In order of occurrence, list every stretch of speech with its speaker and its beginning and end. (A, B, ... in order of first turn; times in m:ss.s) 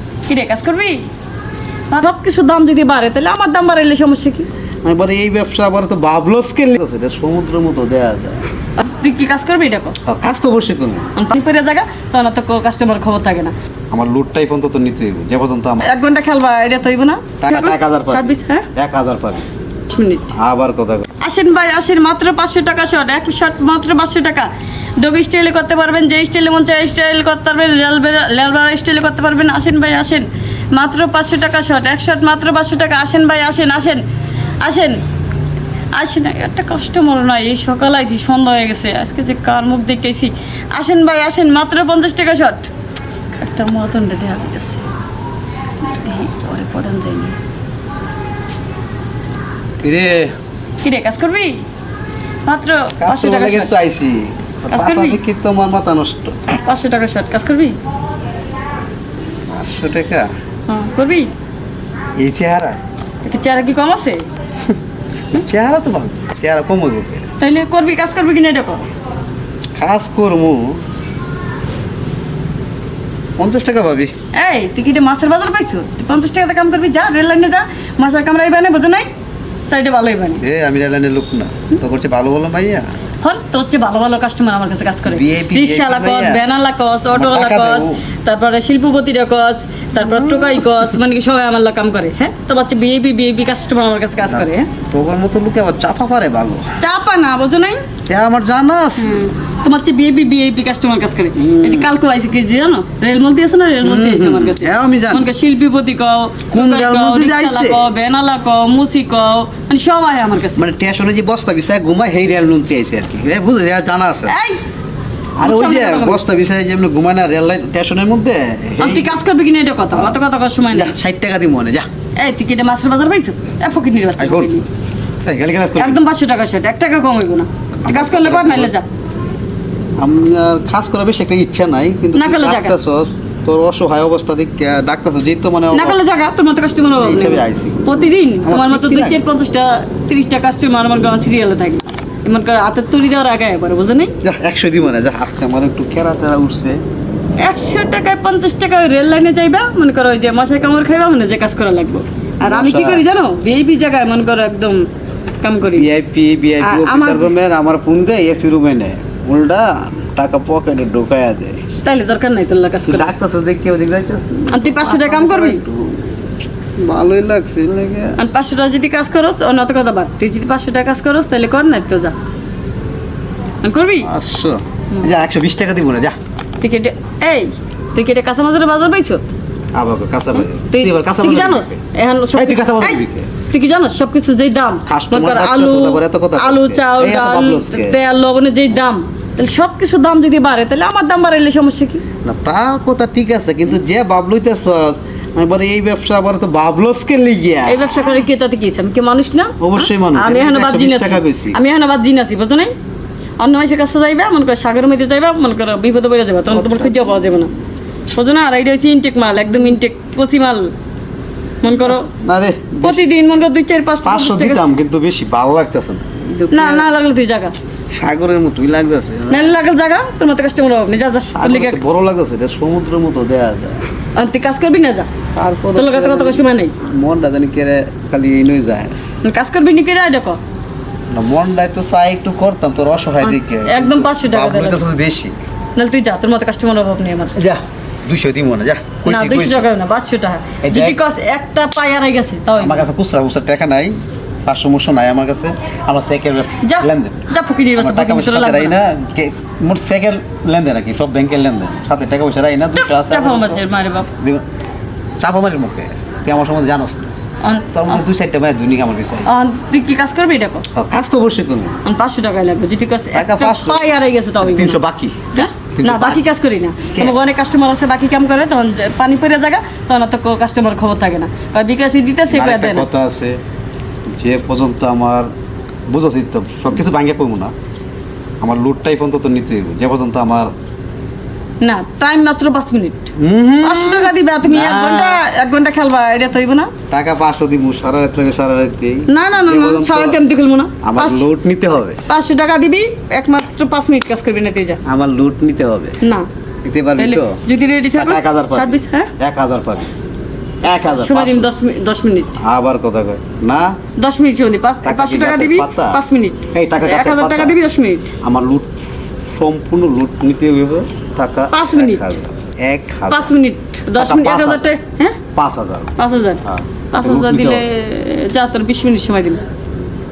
0:00.2-0:01.0 A
0:01.9-0:04.5 A
0:04.8-0:08.4 B
0:08.8-0:10.0 A
0:10.0-0:11.1 B
0:11.1-0:13.5 A
0:13.9-0:15.8 B
0:15.8-0:18.7 A
0:17.4-0:19.4 B
0:19.9-0:20.3 A
0:20.3-0:21.1 B
0:21.2-0:34.0 A
0:34.6-0:35.0 A
0:35.9-0:42.7 A
0:43.3-0:44.8 A
0:45.8-0:47.4 A
0:49.8-0:50.3 B
0:50.8-0:51.6 A
0:52.4-0:53.7 A
0:53.0-0:56.4 B
0:54.7-0:55.2 A
0:56.6-0:57.8 A
0:59.5-1:00.3 B
1:00.7-1:01.3 A
1:02.2-1:02.8 B
1:03.2-1:04.2 A
1:05.3-1:07.3 B
1:07.4-1:08.9 A
1:09.8-1:10.8 B
1:13.4-1:14.1 B
1:14.3-1:19.1 A
1:19.7-1:20.4 A
1:20.4-1:23.0 B
1:23.2-1:34.7 A
1:25.0-1:26.4 B
1:27.1-1:28.0 B
1:34.3-1:36.6 B
1:36.8-1:37.8 A
1:38.0-1:39.2 B
1:39.0-1:50.6 A
1:41.4-1:41.9 B
1:43.8-1:45.3 B
1:46.5-1:47.9 B
1:50.5-1:54.4 B
1:54.2-1:54.6 A
1:55.4-1:59.2 B
1:55.4-1:56.2 A
1:58.8-2:00.9 A
1:59.9-2:00.2 B
2:00.7-2:01.9 B
2:02.2-2:04.6 A
2:04.2-2:04.5 B
2:05.2-2:06.0 B
2:05.8-2:08.8 A
2:07.8-2:08.7 B
2:10.0-2:16.0 B
2:12.1-2:12.8 A
2:15.7-2:24.1 A
2:17.0-2:19.2 B
2:24.2-2:26.8 B
2:27.4-2:34.8 A
2:32.4-2:33.0 B
2:35.4-2:35.9 A
2:35.7-2:41.6 B
2:36.6-2:37.3 A
2:41.8-2:43.1 A
2:42.8-2:46.2 B
2:44.5-2:45.6 A
2:46.8-2:48.2 B
2:48.2-2:52.1 A
2:53.6-2:54.1 A
2:54.0-2:56.2 B
2:56.6-2:59.2 A
2:59.7-3:01.8 B
3:00.7-3:12.0 A
3:02.3-3:03.3 B
3:04.9-3:08.0 B
3:12.2-3:17.9 B
3:17.6-3:22.7 A
3:19.6-3:21.6 B
3:23.4-3:27.5 A
3:26.5-3:27.2 B
3:28.1-3:30.7 A
3:31.6-3:32.1 A
3:32.1-3:33.0 B
3:32.8-3:34.7 A
3:34.0-3:36.9 B
3:36.5-3:37.5 A
3:37.9-3:39.6 B
3:39.3-3:41.8 A
3:41.3-3:43.8 B
3:44.1-3:45.1 A
3:45.3-3:49.0 B
3:45.7-3:46.7 A
3:49.2-3:50.4 A
3:51.1-3:55.3 B
3:53.2-3:54.8 A
3:55.8-3:57.4 A
3:57.4-3:59.7 B
3:59.0-4:02.8 A
4:00.6-4:01.0 B
4:02.6-4:13.6 B
4:06.6-4:08.8 A
4:12.8-4:14.1 A
4:15.2-4:17.1 B
4:17.4-4:18.0 A
4:17.7-4:19.3 B
4:19.2-4:20.6 A
4:20.7-4:21.8 B
4:21.8-4:24.8 A
4:23.1-4:26.2 B
4:25.3-4:32.9 A
4:32.3-4:33.4 B
4:34.2-4:35.3 B
4:35.9-4:37.5 B
4:38.4-4:40.5 B
4:41.6-4:43.1 A
4:43.2-4:45.2 B
4:43.6-4:46.7 A
4:46.9-4:50.2 B
4:49.1-4:51.2 A
4:50.8-4:52.0 B
4:52.1-4:54.8 A
4:54.8-4:56.0 B
4:56.0-4:56.3 A
4:56.6-4:57.4 B
4:57.0-4:59.1 A
4:57.9-4:59.9 B
5:00.6-5:01.5 B
5:00.9-5:02.4 A
5:02.4-5:03.8 B
5:04.0-5:08.1 A
5:04.8-5:06.0 B
5:06.5-5:07.6 B
5:08.2-5:08.7 B
5:09.3-5:13.3 B
5:11.5-5:12.2 A
5:13.1-5:15.2 A
5:13.9-5:14.7 B
5:15.3-5:17.6 B
5:16.0-5:19.4 A